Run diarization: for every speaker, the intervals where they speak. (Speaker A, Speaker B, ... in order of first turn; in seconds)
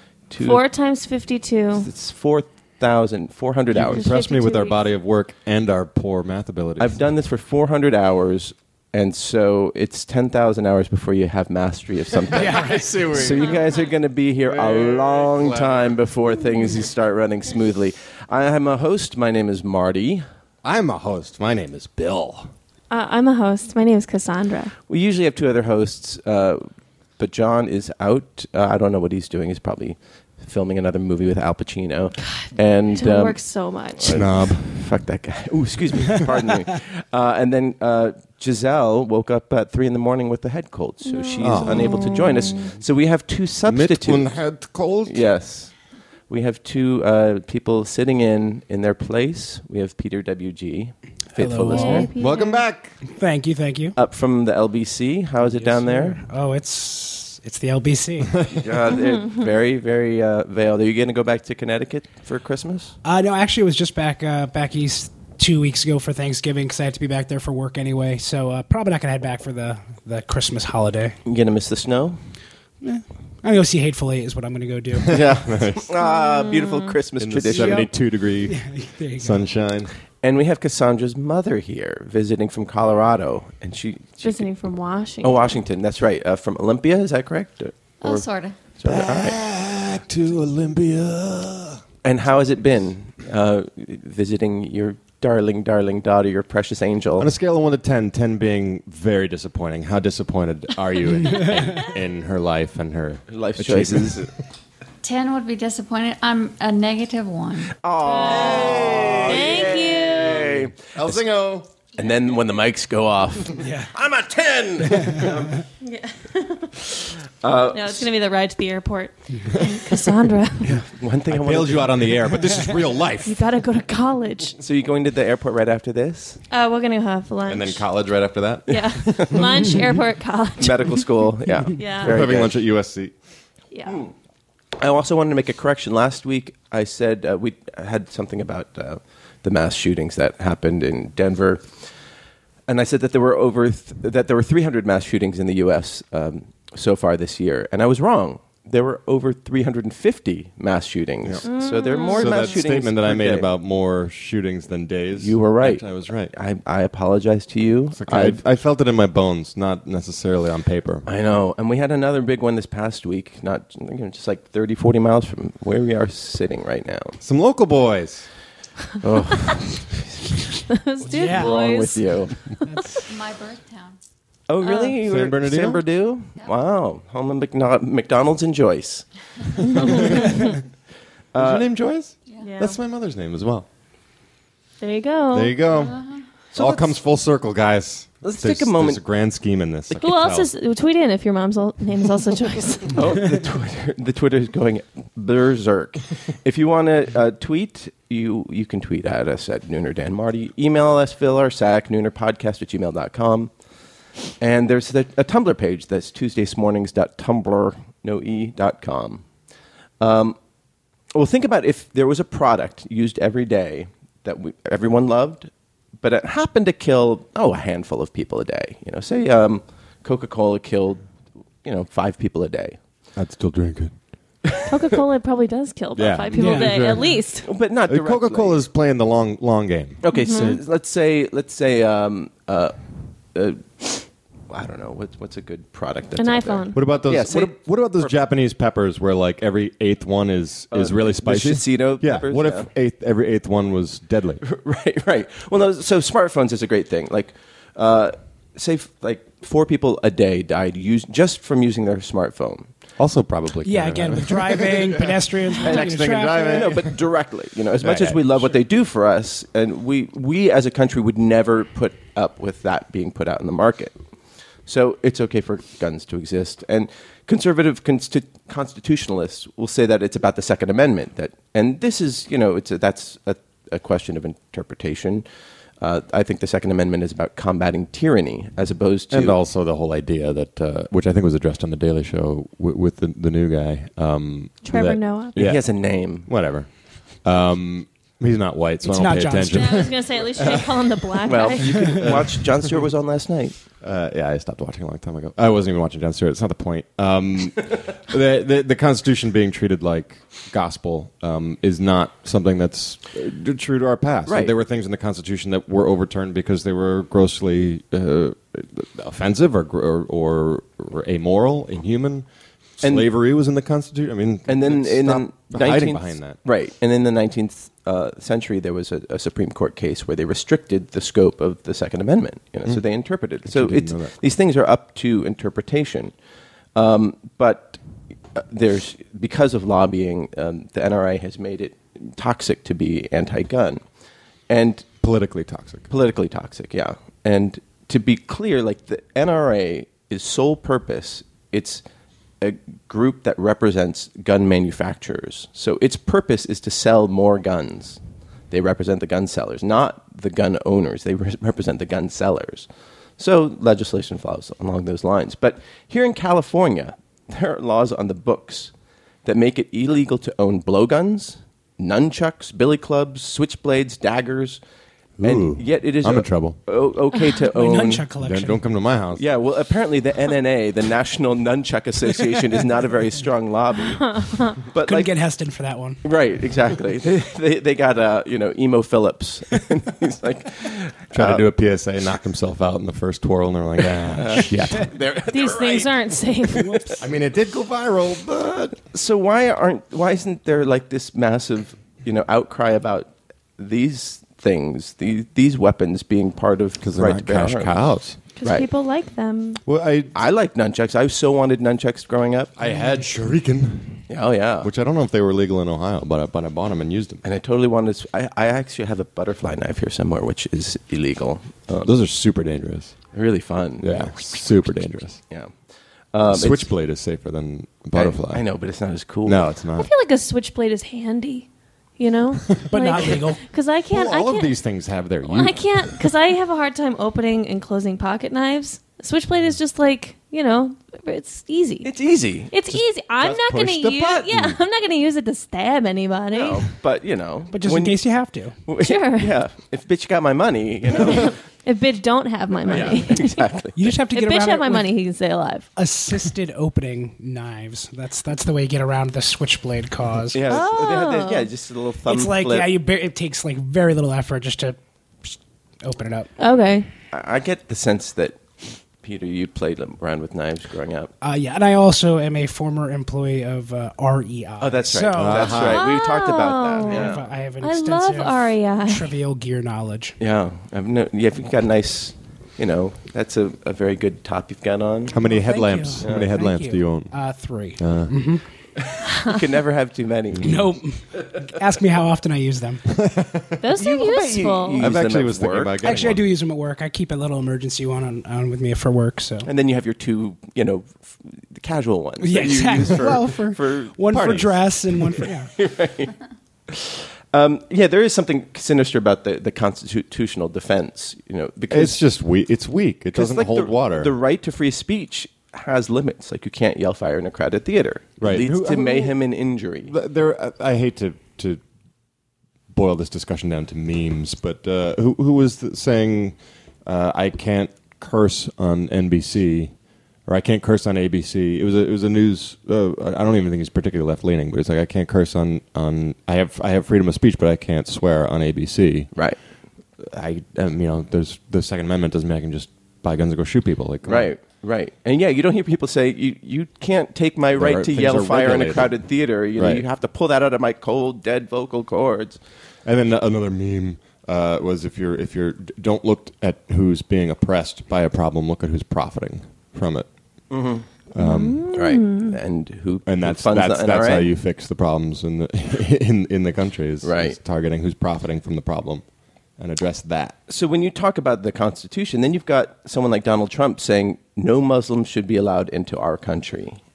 Speaker A: 0.3-0.6, 1.7-4.1, 6.8-20.2, 24.9-26.6, 27.2-33.4, 34.0-44.3, 45.1-45.7, 46.3-52.1, 53.9-56.2, 58.6-62.9, 71.2-72.2, 75.8-77.9, 80.2-84.5, 85.2-88.2, 88.8-89.4, 92.0-97.3, 103.3-104.3, 107.8-111.2, 111.9-115.6, 117.4-118.1, 120.7-122.2, 124.6-126.4, 128.7-129.7, 130.6-132.5, 133.9-134.1, 134.8-141.8, 142.7-153.5, 155.2-158.4, 161.1-167.2, 169.0-170.4, 171.0-172.3, 174.5-179.3, 179.8-180.2, 181.3-181.6, 186.5-187.0, 188.2-189.0, 192.9-203.5, 204.4-209.2, 210.0-210.4, 211.1-221.0, 221.6-222.8, 224.4-224.9, 227.4-228.6, 230.0-232.8, 233.3-238.1, 240.7-242.7, 244.4-252.7, 255.6-263.9, 264.6-275.2, 275.8-279.4, 285.4-286.3, 291.2-293.6, 304.3-304.5, 312.8-313.1, 314.5-326.1, 326.7-327.8, 328.3-333.8, 334.5-334.9, 335.9-341.8, 342.4-348.0, 348.5-352.7, 353.2-358.7, 359.2-364.6, 365.2-368.0, 369.1-375.1, 376.0-381.5, 384.1-385.9, 386.4-387.0, 388.2-397.8, 400.1-402.5, 404.1-404.7, 407.2-411.9, 413.1-415.5, 416.1-416.7, 417.9-419.4, 431.8-432.5, 433.2-434.5, 436.3-438.0, 438.6-441.4, 442.7-443.8, 450.3-452.7, 457.1-461.1, 464.6-467.2, 470.2-475.1, 476.0-476.2, 478.9-480.7, 483.7-485.8, 489.4-493.9, 495.5-496.1, 496.7-502.0, 503.1-509.9, 529.1-529.4, 534.0-542.4, 550.5-550.9, 551.7-554.3, 557.0-557.4, 560.5-566.8
Speaker B: 0.4-1.9, 3.8-4.9, 13.4-13.7, 22.9-24.8, 32.2-34.4, 41.0-42.7, 51.7-52.6, 76.0-77.0, 84.2-85.6, 108.0-110.6, 115.8-116.9, 117.7-120.8, 123.2-124.6, 126.5-127.8, 128.7-131.0, 131.8-132.2, 133.7-134.0, 151.4-152.6, 170.7-173.0, 174.6-174.9, 179.7-180.5, 182.4-182.8, 184.8-185.6, 189.9-193.0, 224.7-227.5, 230.1-230.6, 236.2-236.9, 284.6-285.4, 289.5-292.0, 373.9-374.6, 385.3-386.8, 398.4-399.6, 419.8-424.6, 425.2-431.9, 432.5-436.6, 438.8-439.3, 440.9-443.5, 444.1-445.7, 450.5-451.5, 456.4-456.9, 465.7-469.1, 483.6-484.8, 508.7-509.1, 551.1-552.4
Speaker C: 3.7-7.0, 12.2-13.6, 14.4-15.9, 20.6-22.5, 34.0-34.7, 41.4-42.2, 43.6-45.2, 52.1-53.0, 75.1-75.9, 77.2-79.9, 88.8-91.8, 97.2-104.2, 108.5-109.4, 110.9-111.7, 121.3-123.4, 127.5-129.2, 132.1-133.1, 152.1-156.3, 157.9-161.1, 167.2-168.3, 175.0-175.8, 179.8-180.2, 181.3-183.7, 185.3-186.0, 186.5-190.5, 223.2-223.9, 225.9-227.1, 227.9-230.6, 236.7-244.4, 253.0-256.9, 257.8-258.5, 279.1-290.7, 292.0-292.4, 293.8-312.2, 312.8-316.4, 323.4-324.1, 335.0-335.9, 365.2-366.6, 368.2-369.2, 381.1-384.9, 387.0-388.4, 396.8-398.2, 399.6-400.1, 402.6-404.1, 404.6-407.2, 411.8-412.9, 413.8-415.2, 416.2-418.4, 419.2-419.9, 423.9-425.9, 433.2-434.5, 465.1-465.8, 475.1-477.1, 477.8-478.1, 482.9-483.6, 484.8-486.2, 494.1-494.6, 501.7-504.1, 508.2-509.1, 509.8-511.6, 512.7-519.7, 520.2-529.1, 530.0-534.3, 537.5-538.9, 539.6-539.8, 542.8-550.1, 551.1-551.6, 553.0-559.0, 559.6-560.4
Speaker D: 12.3-13.1, 51.4-52.1, 53.0-53.9, 55.4-58.5, 63.0-71.2, 72.8-75.4, 77.4-79.4, 113.6-113.9, 171.1-171.5, 172.7-173.0, 226.3-226.8, 253.6-256.7, 288.8-289.9, 367.4-368.6, 374.8-376.0, 422.7-423.4, 437.5-438.5, 443.8-444.9, 445.8-450.4, 452.1-456.3, 461.2-465.7, 466.9-470.1, 475.2-478.4, 480.4-483.0, 485.8-489.5, 492.2-495.5
Speaker E: 88.0-88.6, 105.0-107.7, 173.0-174.0, 185.7-186.2